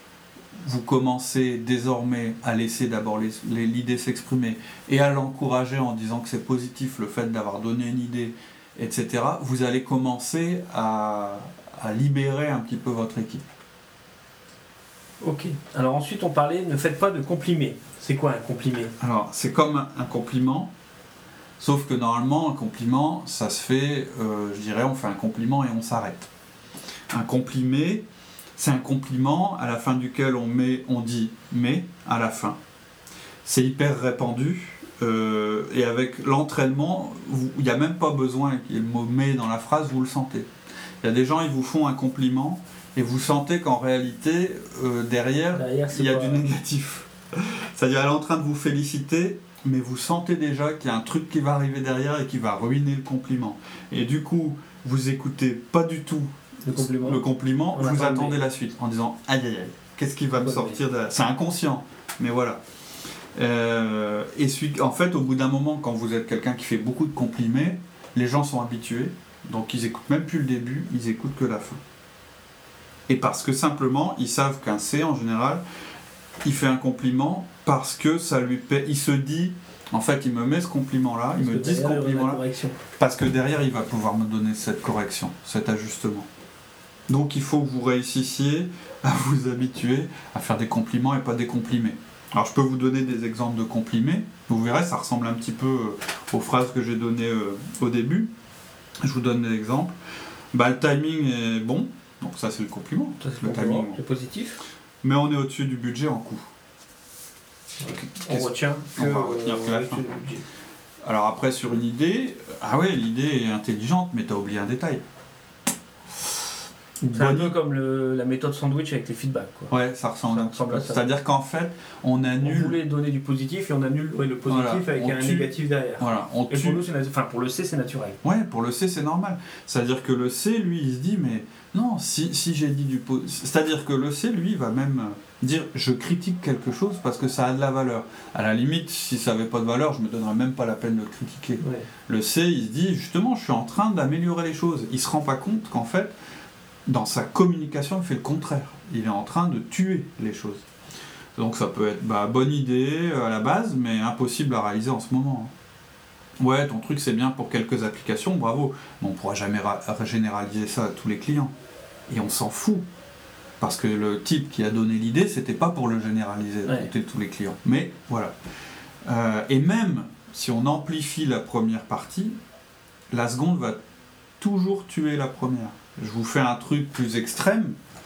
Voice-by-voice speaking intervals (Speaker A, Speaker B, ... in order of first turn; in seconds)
Speaker A: 0.6-13.4, 19.0-20.7, 21.6-26.3, 27.1-28.1, 28.6-32.6, 33.5-40.5, 41.0-62.6, 63.4-71.8, 73.1-75.6, 76.4-82.4, 83.0-86.3, 87.1-98.3, 99.0-100.0, 100.5-104.0, 105.0-106.5, 107.8-110.0, 111.0-115.0, 117.0-117.5, 119.7-122.8, 124.5-126.8, 128.2-146.2, 146.9-150.7, 151.4-155.5, 156.4-161.5, 162.1-162.9, 163.6-168.3, 169.1-172.4, 173.1-173.8, 174.4-177.8
Speaker B: 15.2-18.9, 45.5-46.5, 56.7-58.4, 60.3-60.8, 81.4-82.8, 103.2-104.6, 107.8-110.5, 117.1-119.7, 120.3-121.1, 122.4-128.2, 141.6-141.9, 166.7-166.9